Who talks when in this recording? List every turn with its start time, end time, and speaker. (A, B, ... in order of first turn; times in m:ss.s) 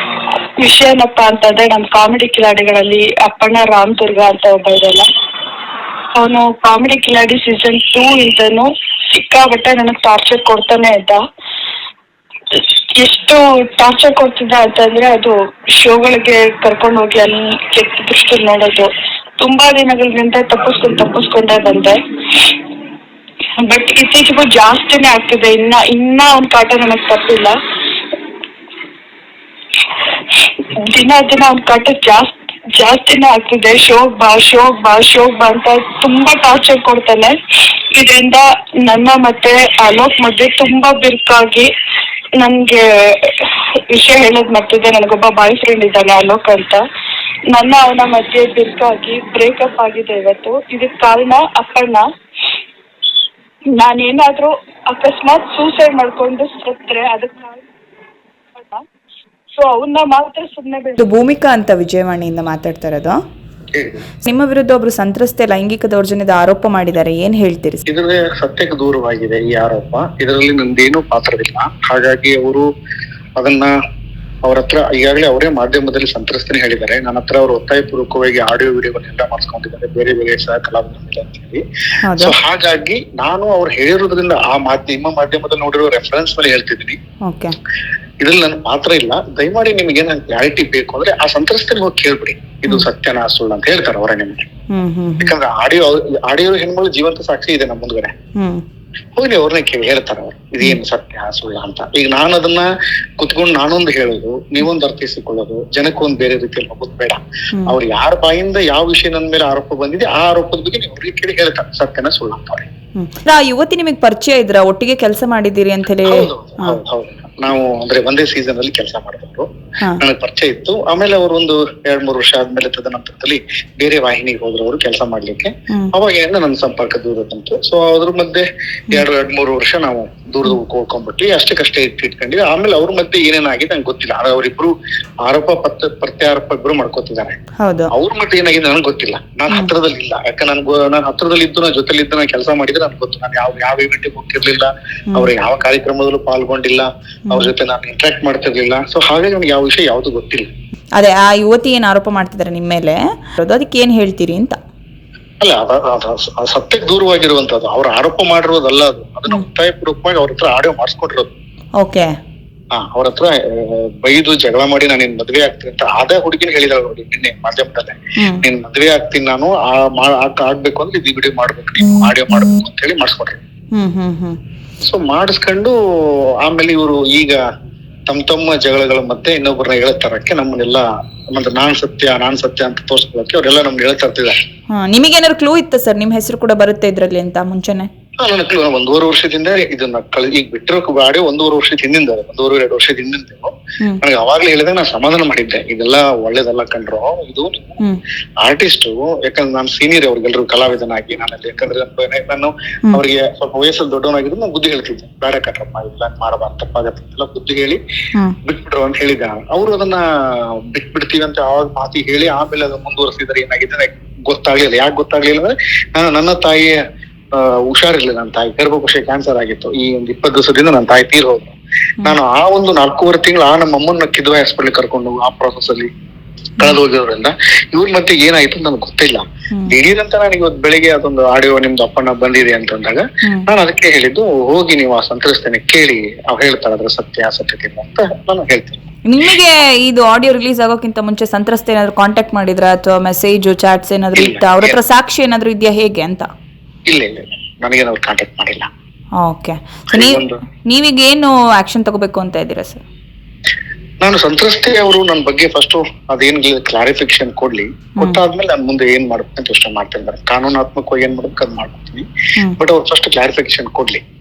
0:00.6-0:05.1 A
0:06.2-0:11.2 A
0:12.5-0:22.6 A
0:23.6-0:27.5 A
0:30.5-0:37.4 A
0:37.9-0:41.7 A
0:42.4-0:46.8 A
0:47.5-0:52.0 A
0:53.7-0:57.6 A
0:58.6-0:58.9 A
0:59.5-1:01.1 A
1:01.0-1:03.2 B
1:03.7-1:04.0 C
1:04.2-1:07.8 B
1:07.9-1:12.7 C
1:13.4-1:13.7 C
1:14.5-1:27.0 C
1:22.1-1:22.4 B
1:27.3-1:27.5 B
1:28.2-1:34.4 C
1:34.7-1:35.4 B
1:35.2-1:38.1 C
1:38.4-1:38.6 B
1:39.2-1:52.7 C
1:53.0-1:56.8 B
1:56.1-1:59.5 C
2:00.0-2:14.7 C
2:15.3-2:17.4 C
2:17.6-2:17.9 B
2:17.9-2:30.5 C
2:31.0-2:34.6 B
2:35.4-2:41.3 C
2:41.8-2:42.1 B
2:42.8-2:53.4 C
2:48.2-2:48.4 B
2:53.8-2:54.4 B
2:54.8-2:55.8 C
2:56.4-2:57.4 C
2:58.1-3:04.4 C
3:04.7-3:07.9 B
3:08.2-3:17.8 C
3:18.4-3:27.8 C
3:28.4-3:36.8 C
3:37.3-3:45.9 C
3:46.6-3:58.8 C
3:59.1-4:06.3 B
4:04.2-4:04.8 C
4:06.9-4:08.7 C
4:09.2-4:12.8 B
4:09.9-4:10.4 C
4:14.0-4:24.0 C